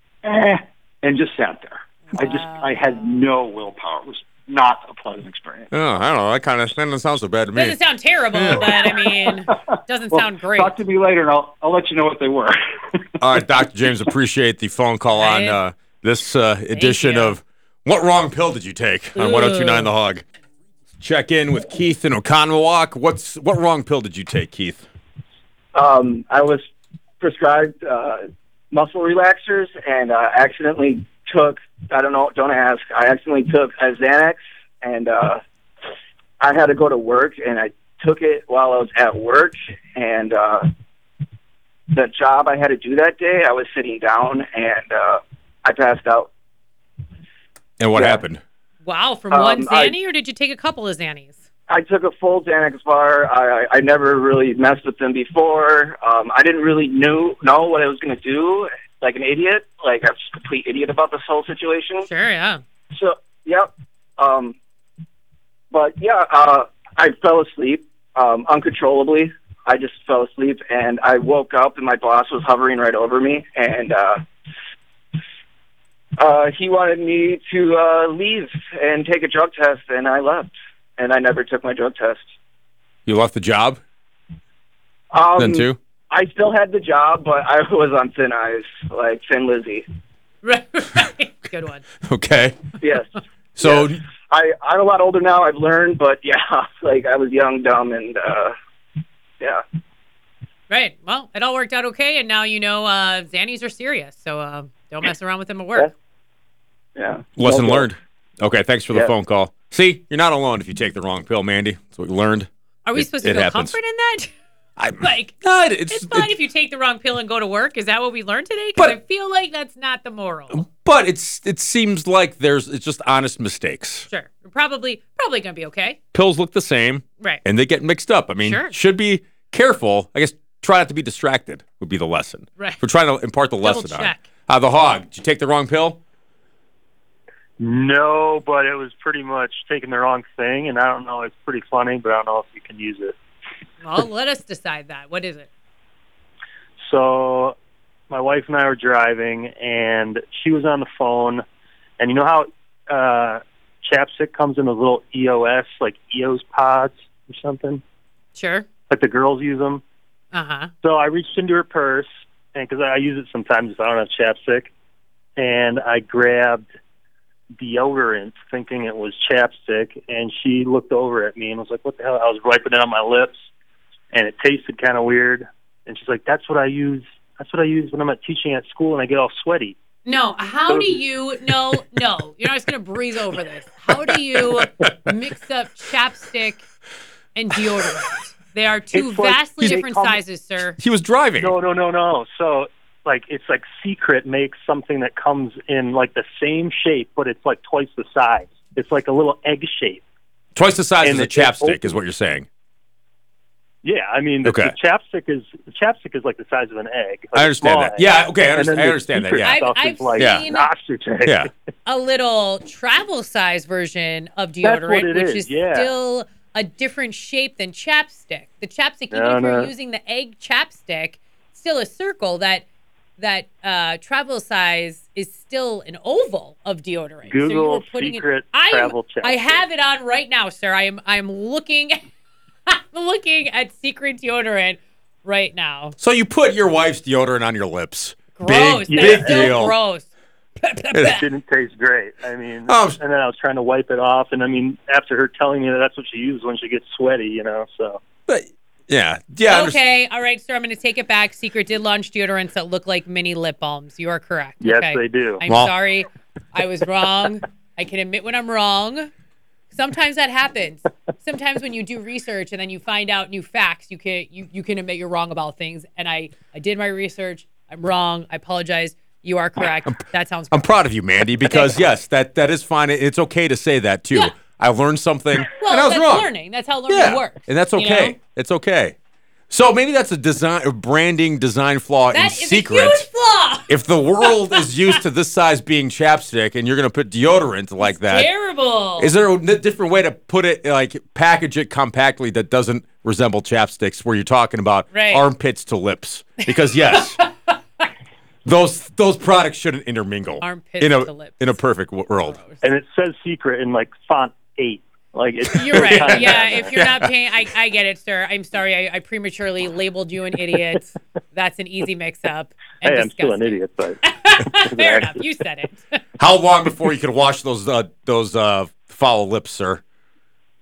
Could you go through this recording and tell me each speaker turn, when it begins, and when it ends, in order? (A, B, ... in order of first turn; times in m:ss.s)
0:00.2-0:05.7 A
0:02.1-0:02.9 B
0:05.7-0:07.8 C
0:07.6-0:10.8 B
0:08.3-0:08.7 C
0:08.7-0:09.3 A
0:10.1-0:12.6 A
0:13.2-0:20.2 C
0:15.1-0:15.6 B
0:16.7-0:17.4 B
0:19.2-0:19.9 B
0:21.0-0:24.8 C
0:25.7-0:26.6 D
0:27.2-0:35.4 D
0:36.4-0:40.7 D
0:41.9-0:46.3 D
0:47.8-0:48.4 C
0:48.0-0:48.2 D
0:48.8-0:51.4 B
0:49.3-0:50.0 D
0:51.7-1:02.1 D
1:02.1-1:02.6 B
1:02.9-1:04.6 D
1:05.7-1:14.2 D
1:16.2-1:22.2 D
1:23.1-1:23.8 C
1:25.1-1:29.8 D
1:25.4-1:25.8 C
1:30.4-1:31.8 B
1:32.0-1:32.6 C
1:32.8-1:38.5 D
1:33.6-1:34.0 C
1:40.7-1:45.9 B
1:47.0-1:47.9 D
1:47.4-1:53.8 C
1:52.8-1:54.3 B
1:54.8-1:56.3 C
1:55.0-1:55.4 B
1:55.9-2:00.6 B
2:00.5-2:04.1 C
2:04.1-2:06.0 B
2:06.1-2:16.0 C
2:08.4-2:08.7 B
2:13.6-2:14.3 B
2:17.6-2:23.2 E
2:23.8-2:25.5 B
2:26.8-2:27.6 E
2:28.1-2:31.4 E
2:32.0-2:37.8 E
2:38.4-2:38.7 B
2:38.9-2:39.8 E
2:40.3-2:40.7 B
2:40.8-2:44.7 E
2:45.4-2:46.7 E
2:47.6-2:53.4 E
2:54.1-2:59.8 E
3:00.1-3:06.6 B
3:07.4-3:10.8 B
3:09.0-3:10.1 E
3:10.8-3:11.6 C
3:11.4-3:20.0 E
3:20.6-3:22.5 C
3:21.0-3:21.9 E
3:23.8-3:31.5 E
3:24.4-3:24.8 C
3:27.3-3:29.6 C
3:29.4-3:30.7 B
3:30.2-3:30.5 C
3:31.2-3:31.5 C
3:31.9-3:42.6 B
3:34.6-3:35.8 E
3:39.1-3:39.7 E
3:43.2-3:52.0 B
3:47.3-3:49.6 E
3:52.7-3:56.0 B
3:56.0-3:59.8 C
3:58.4-4:00.1 B
3:58.9-3:59.5 E
4:00.6-4:01.3 B
4:01.3-4:08.0 E
4:02.7-4:03.0 C
4:08.3-4:09.8 C
4:09.5-4:19.1 B
4:14.8-4:15.3 E
4:19.7-4:30.9 B
4:30.5-4:36.3 C
4:31.4-4:31.8 B
4:35.5-4:38.2 B
4:36.9-4:39.0 C
4:39.5-4:43.0 C
4:42.1-4:45.0 B
4:43.7-4:48.3 C
4:47.8-4:49.1 B
4:49.0-4:57.2 C
4:54.9-4:55.3 B
4:58.4-5:02.4 C
5:00.4-5:01.6 B
5:02.2-5:02.6 B
5:02.6-5:06.8 E
5:05.6-5:16.0 B
5:05.7-5:07.1 C
5:12.9-5:14.0 E
5:14.6-5:15.1 E
5:16.2-5:19.8 C